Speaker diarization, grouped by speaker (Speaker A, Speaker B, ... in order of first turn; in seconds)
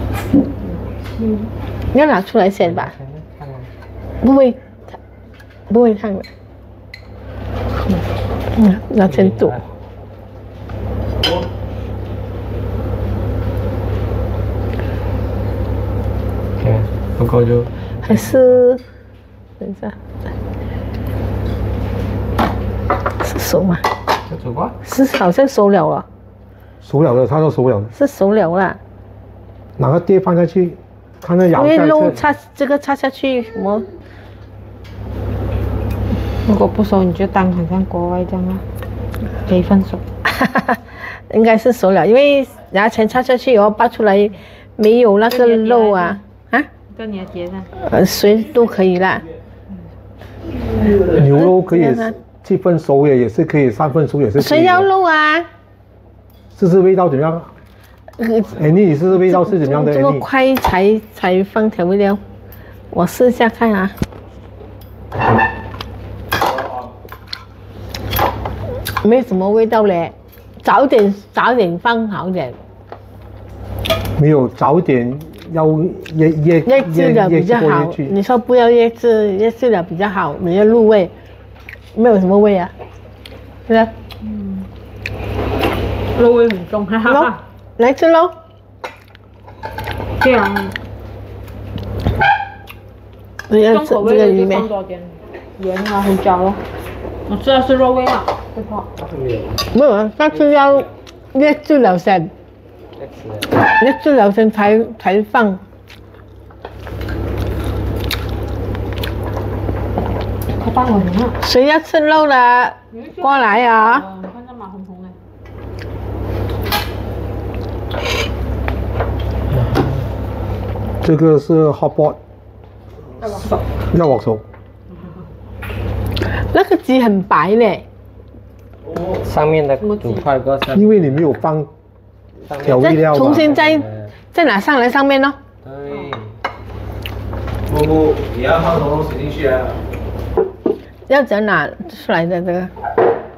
Speaker A: 0.6-1.5, 36.5-38.6, 39.3-40.0, 45.3-46.2, 46.9-47.7, 84.2-84.7, 86.1-87.4, 90.2-90.7, 93.7-96.6, 97.2-98.9, 110.5-111.4, 112.9-115.2, 123.2-123.5, 124.9-125.2, 129.8-130.2
Speaker B: 1.9-2.9, 4.2-4.6, 5.7-6.2, 8.6-9.6, 18.0-18.8, 19.6-20.0, 23.2-23.8, 24.8-26.0, 27.9-28.8, 31.5-33.8, 40.2-46.7, 47.8-49.2, 51.1-52.1, 54.4-55.5, 58.2-62.2, 62.9-63.9, 69.0-72.6, 76.7-81.1, 81.9-82.7, 87.1-88.3, 93.5-94.7, 99.7-102.3, 103.8-105.6, 111.4-114.0, 126.3-127.8, 132.7-135.4, 141.1-142.7
Speaker C: 2.6-3.7, 9.1-9.7, 16.6-18.5, 24.2-24.8, 99.0-99.7, 103.0-103.5, 119.5-120.0, 129.2-131.4, 132.4-134.1, 135.6-136.4
Speaker D: 26.8-27.9, 29.8-32.2, 51.1-54.9, 56.5-57.5, 58.5-60.2, 74.2-78.2, 121.0-122.2, 123.9-124.4, 130.7-131.7, 132.6-133.5
Speaker E: 66.4-66.9, 128.8-129.2, 137.7-139.8